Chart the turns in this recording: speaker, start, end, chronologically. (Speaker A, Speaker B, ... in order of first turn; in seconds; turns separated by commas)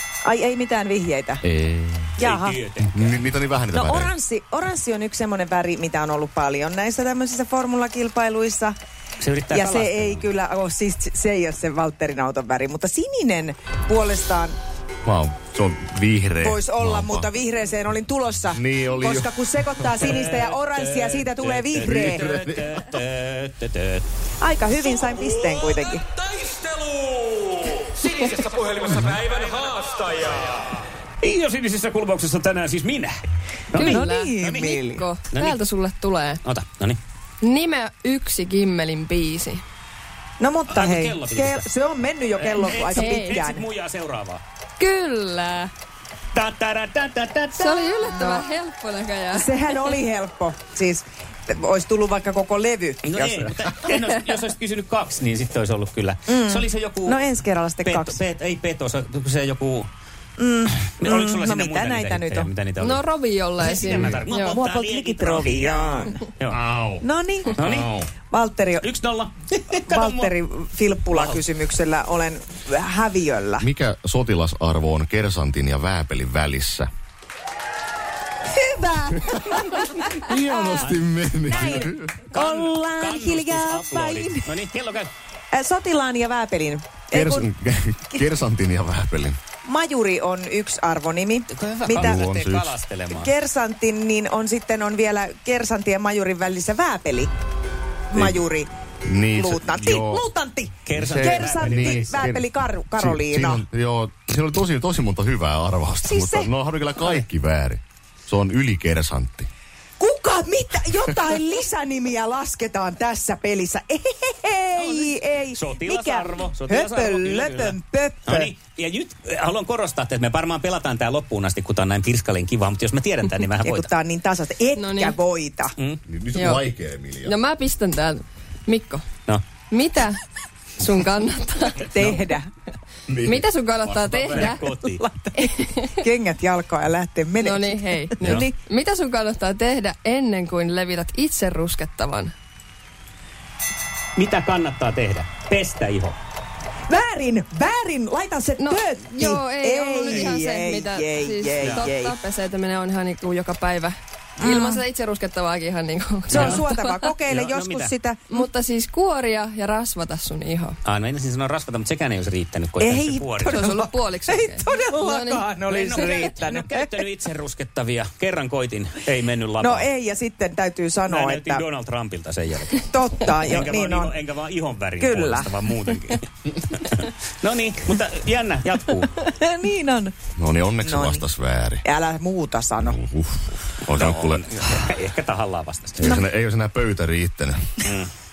Speaker A: 0.2-1.4, Speaker B: 1.4-2.3, Speaker A: 2.2-2.6, Speaker C: 2.2-3.3, Speaker B: 2.8-4.1, Speaker A: 3.7-8.8, Speaker C: 9.2-10.3, Speaker A: 9.5-14.6, Speaker B: 15.1-17.3, Speaker A: 16.4-22.2, Speaker B: 18.5-19.3, Speaker C: 20.0-24.1, Speaker B: 21.8-22.8, Speaker A: 24.4-26.1, Speaker D: 26.4-30.7, Speaker C: 28.8-29.2, Speaker C: 31.2-33.2, Speaker C: 33.7-34.8, Speaker E: 33.7-36.4, Speaker A: 33.8-35.0, Speaker C: 35.3-35.6, Speaker C: 36.4-37.0, Speaker E: 37.4-39.6, Speaker A: 40.4-43.6, Speaker C: 40.7-41.6, Speaker C: 42.4-44.4, Speaker E: 42.9-43.4, Speaker E: 44.8-45.7, Speaker C: 46.3-47.9, Speaker E: 47.6-50.0, Speaker A: 48.0-48.5, Speaker A: 49.3-53.5, Speaker C: 53.0-57.2, Speaker A: 56.3-58.2, Speaker C: 57.8-59.9, Speaker A: 60.4-62.5, Speaker C: 60.8-63.0, Speaker E: 62.8-64.6, Speaker C: 63.6-66.6, Speaker A: 64.4-66.2, Speaker B: 66.5-68.1, Speaker A: 67.0-68.9, Speaker C: 67.5-67.9, Speaker C: 68.8-70.3, Speaker A: 69.9-73.7, Speaker C: 71.1-71.5, Speaker B: 73.6-76.9, Speaker A: 78.5-80.9, Speaker B: 80.2-82.2, Speaker C: 80.7-85.1, Speaker A: 81.5-84.6, Speaker A: 85.5-87.5, Speaker B: 87.1-89.4, Speaker A: 89.6-92.3, Speaker C: 91.5-93.3, Speaker B: 92.0-92.8, Speaker A: 93.1-97.3, Speaker A: 98.1-98.7, Speaker B: 98.2-98.5, Speaker B: 99.0-100.2, Speaker A: 99.3-103.6, Speaker C: 100.8-102.3, Speaker B: 100.9-109.5, Speaker A: 106.0-106.5, Speaker A: 110.0-118.5, Speaker C: 114.7-123.9, Speaker A: 123.6-125.7, Speaker E: 124.8-125.2, Speaker B: 126.1-127.4, Speaker E: 126.3-126.7, Speaker E: 127.2-129.1, Speaker E: 129.7-130.2, Speaker E: 130.8-132.1, Speaker A: 131.8-132.5, Speaker B: 133.1-134.6, Speaker E: 133.2-134.7, Speaker C: 134.3-135.0, Speaker A: 134.8-138.6, Speaker E: 135.4-135.9, Speaker E: 137.4-142.3, Speaker C: 144.2-146.2, Speaker A: 146.9-152.2, Speaker E: 148.6-157.0, Speaker C: 151.6-151.9, Speaker A: 154.4-154.8, Speaker C: 156.3-156.7, Speaker A: 156.3-158.5, Speaker C: 157.3-157.9, Speaker E: 158.3-160.8, Speaker C: 160.8-163.7, Speaker A: 162.8-167.0, Speaker E: 163.4-166.3, Speaker C: 165.7-169.9, Speaker A: 169.6-171.7, Speaker C: 171.1-179.1, Speaker A: 172.9-174.1, Speaker A: 175.0-175.5, Speaker A: 179.2-180.1, Speaker B: 180.4-181.8, Speaker A: 180.8-181.3, Speaker A: 181.8-183.0, Speaker B: 182.8-184.6, Speaker C: 183.9-186.1, Speaker B: 186.0-187.8, Speaker C: 187.9-188.1